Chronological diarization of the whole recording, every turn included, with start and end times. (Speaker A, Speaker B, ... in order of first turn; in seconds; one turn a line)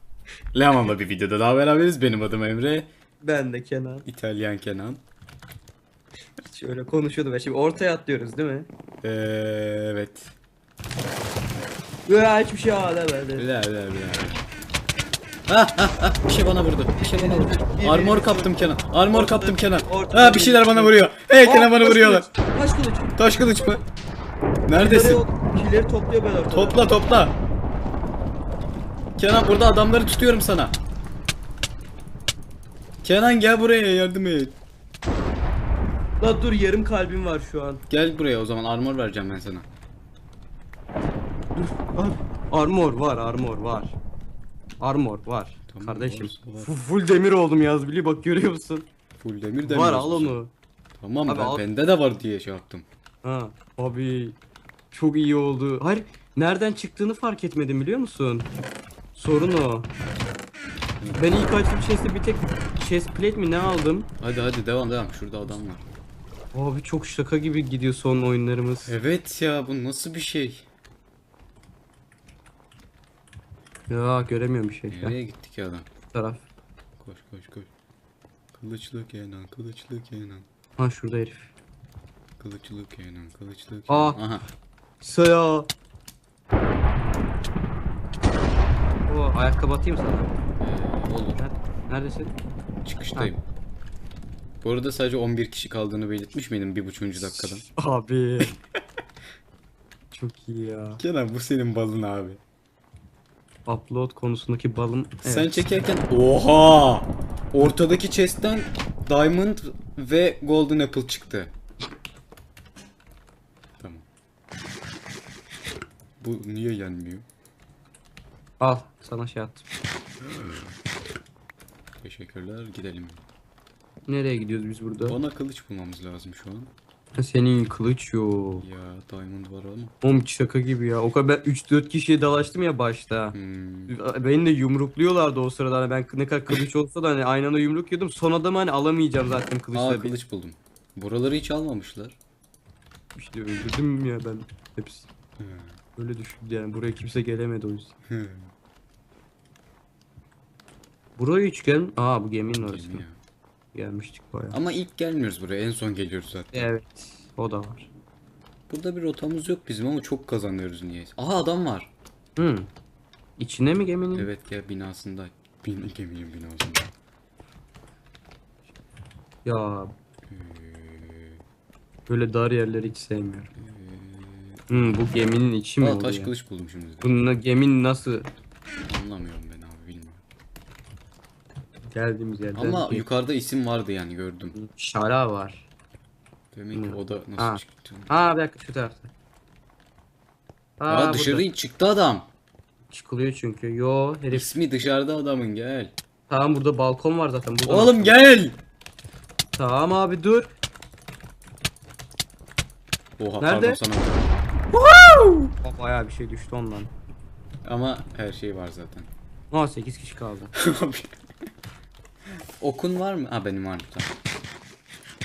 Speaker A: 0.5-2.9
Speaker B: 3.2-4.0
Speaker A: 4.0-5.0
Speaker B: 6.4-8.7
Speaker A: 9.0-10.3
Speaker B: 12.1-13.4
Speaker A: 13.3-14.4
Speaker A: 15.5-22.3
Speaker B: 17.0-18.5
Speaker B: 19.1-23.1
Speaker A: 23.2-23.8
Speaker A: 24.7-25.2
Speaker B: 24.7-26.9
Speaker A: 26.5-27.4
Speaker A: 29.2-30.8
Speaker A: 33.0-34.6
Speaker B: 36.2-37.8
Speaker A: 37.9-39.7
Speaker B: 41.5-44.0
Speaker B: 44.8-48.9
Speaker A: 45.7-46.7
Speaker A: 49.2-50.4
Speaker B: 49.6-50.5
Speaker A: 51.0-52.9
Speaker B: 51.2-51.6
Speaker B: 53.2-54.4
Speaker B: 54.9-58.5
Speaker B: 59.1-59.9
Speaker A: 61.0-61.4
Speaker B: 61.1-64.1
Speaker A: 64.2-65.8
Speaker B: 66.5-69.0
Speaker A: 68.9-70.7
Speaker B: 73.9-75.2
Speaker A: 74.9-75.9
Speaker B: 76.1-76.5
Speaker A: 77.0-77.7
Speaker A: 78.5-80.5
Speaker B: 80.8-81.5
Speaker A: 82.4-84.4
Speaker B: 83.9-84.2
Speaker B: 85.0-85.7
Speaker B: 89.1-90.3
Speaker A: 90.6-91.4
Speaker B: 91.4-92.3
Speaker A: 92.8-93.4
Speaker A: 94.6-97.6
Speaker B: 97.2-98.6
Speaker B: 100.1-101.0
Speaker A: 101.0-102.4
Speaker B: 103.7-105.7
Speaker A: 105.2-111.5
Speaker A: 113.8-114.0
Speaker A: 116.2-117.2
Speaker B: 118.6-119.6
Speaker A: 120.2-120.7
Speaker A: 122.0-123.2
Speaker B: 124.0-125.2
Speaker A: 125.0-126.7
Speaker B: 127.2-128.7
Speaker A: 128.6-129.9
Speaker B: 130.0-133.3
Speaker A: 133.3-134.0
Speaker B: 133.9-140.1
Speaker A: 139.7-142.2
Speaker B: 143.2-145.1
Speaker A: 145.4-145.8
Speaker B: 145.9-147.9
Speaker A: 148.1-148.5
Speaker B: 151.2-153.0
Speaker A: 152.6-153.2
Speaker B: 153.7-154.6
Speaker A: 154.5-156.7
Speaker B: 156.5-157.9
Speaker A: 158.7-161.9
Speaker B: 162.4-162.7
Speaker B: 163.4-164.3
Speaker A: 164.1-166.9
Speaker B: 169.4-169.9
Speaker A: 170.3-171.4
Speaker B: 172.1-173.5
Speaker A: 173.5-175.0
Speaker B: 174.7-176.3
Speaker A: 175.8-177.1
Speaker B: 177.0-178.3
Speaker A: 178.9-180.2
Speaker B: 181.9-183.0
Speaker A: 182.6-184.6
Speaker B: 184.5-185.7
Speaker A: 186.5-188.2
Speaker B: 186.7-189.1
Speaker B: 190.8-191.4
Speaker A: 190.9-192.3
Speaker B: 192.9-194.6
Speaker A: 194.3-195.9
Speaker B: 196.3-198.2
Speaker A: 197.6-198.6
Speaker B: 199.6-200.5
Speaker A: 203.2-204.3
Speaker B: 203.4-203.8
Speaker B: 205.5-206.9
Speaker A: 207.6-209.1
Speaker B: 209.5-210.5
Speaker A: 210.5-211.1
Speaker A: 212.6-214.1